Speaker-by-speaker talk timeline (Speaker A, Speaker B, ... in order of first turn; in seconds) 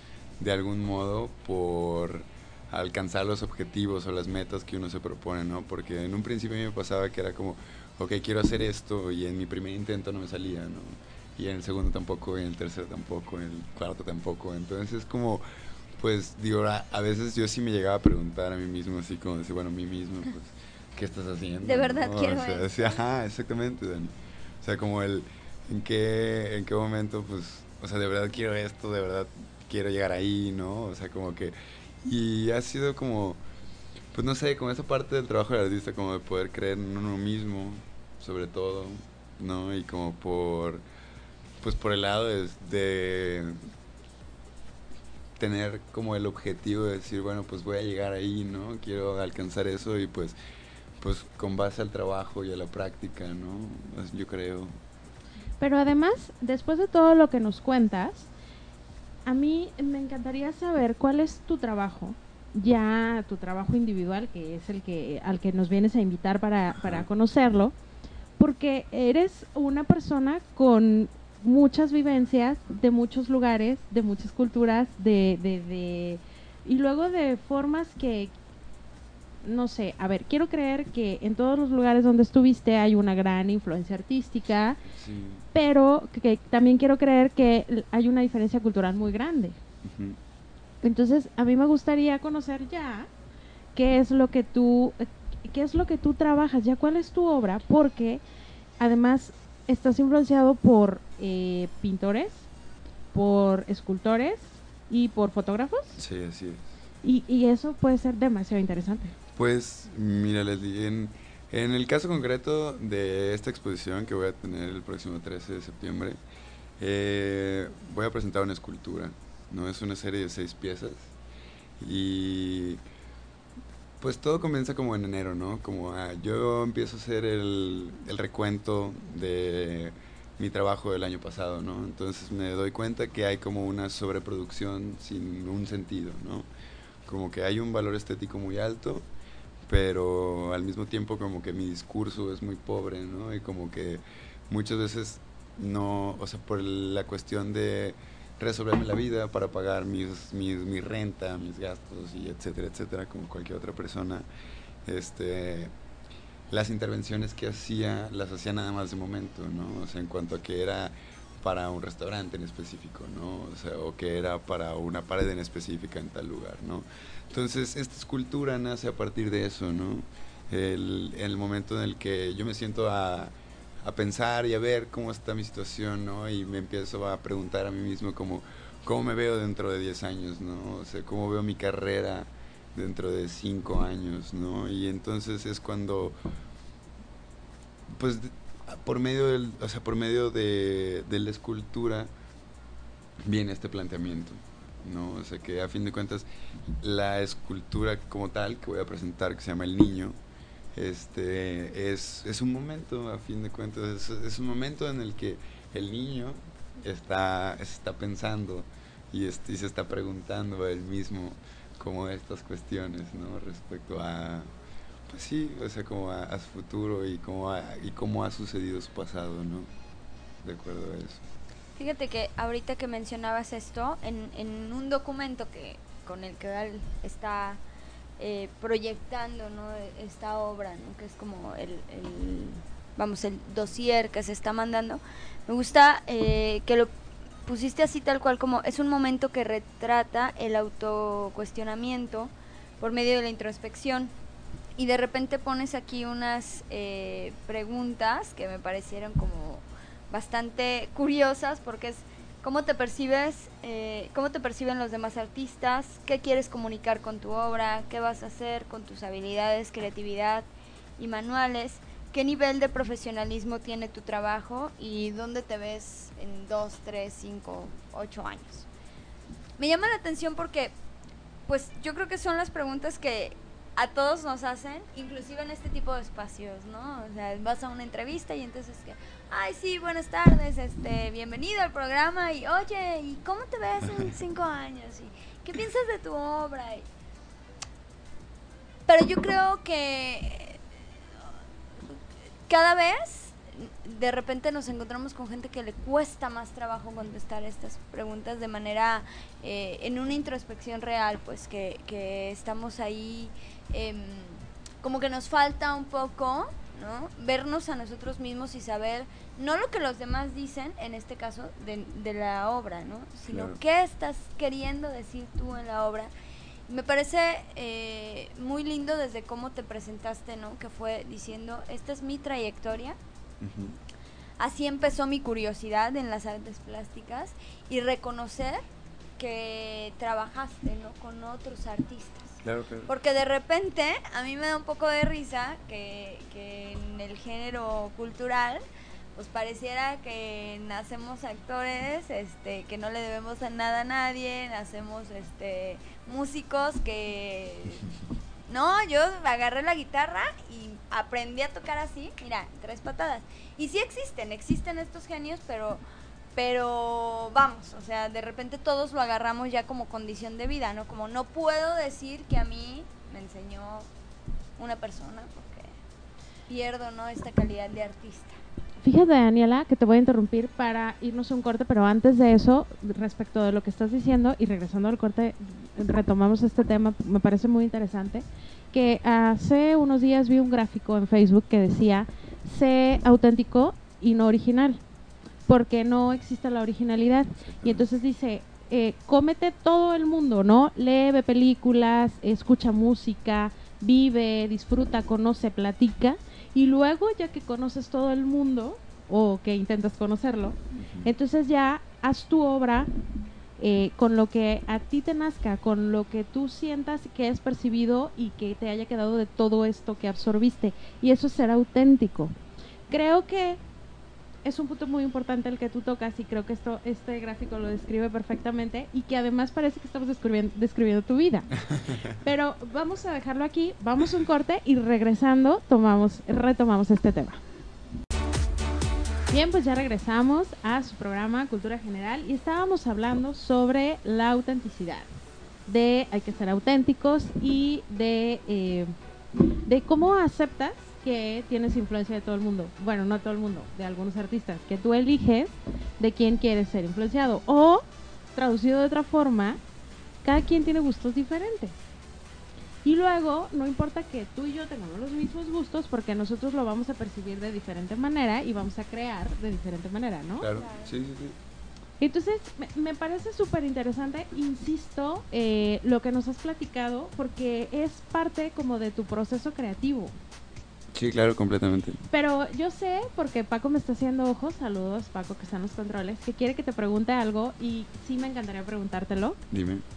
Speaker A: 0.4-15.4, 16.0-33.4, 34.1-40.8, 41.6-43.6, 45.4-50.4, 51.0-54.8, 66.8-67.1, 84.8-85.5, 89.8-90.2, 106.0-106.8, 109.3-116.2, 116.8-121.1, 121.8-122.8, 124.0-136.5, 137.1-139.1, 139.7-154.3, 154.8-155.7, 156.5-186.2, 187.9-192.1, 193.2-196.3, 196.8-200.2, 200.8-214.5, 215.1-219.7, 220.4-221.2, 313.3-313.6, 323.4-323.8, 332.4-332.9, 387.4-387.9, 400.7-401.1, 421.7-422.1, 460.4-461.4, 470.9-472.0, 479.5-479.9
Speaker B: 21.6-23.0, 221.8-227.6, 228.2-236.9, 237.5-244.1, 244.8-260.5, 261.0-268.7, 269.6-270.7, 271.5-286.9, 288.9-290.6, 292.5-316.1, 316.7-323.0, 324.4-328.6, 329.2-338.6, 339.1-347.9, 348.5-355.8, 356.4-363.9, 364.6-365.8, 366.5-368.4, 460.5-460.9
Speaker C: 55.6-58.3, 59.3-67.7, 68.4-78.3, 79.4-84.8, 85.5-89.6, 90.8-93.1, 93.8-98.2, 98.8-102.5, 103.1-106.0, 107.0-109.1, 368.8-384.8, 385.5-402.9, 403.6-412.4, 412.9-413.6, 414.4-421.6, 422.2-427.4, 429.3-435.1, 435.7-438.9, 439.6-447.8, 448.4-449.6, 450.2-451.8, 452.9-460.5, 462.0-470.1, 472.1-479.4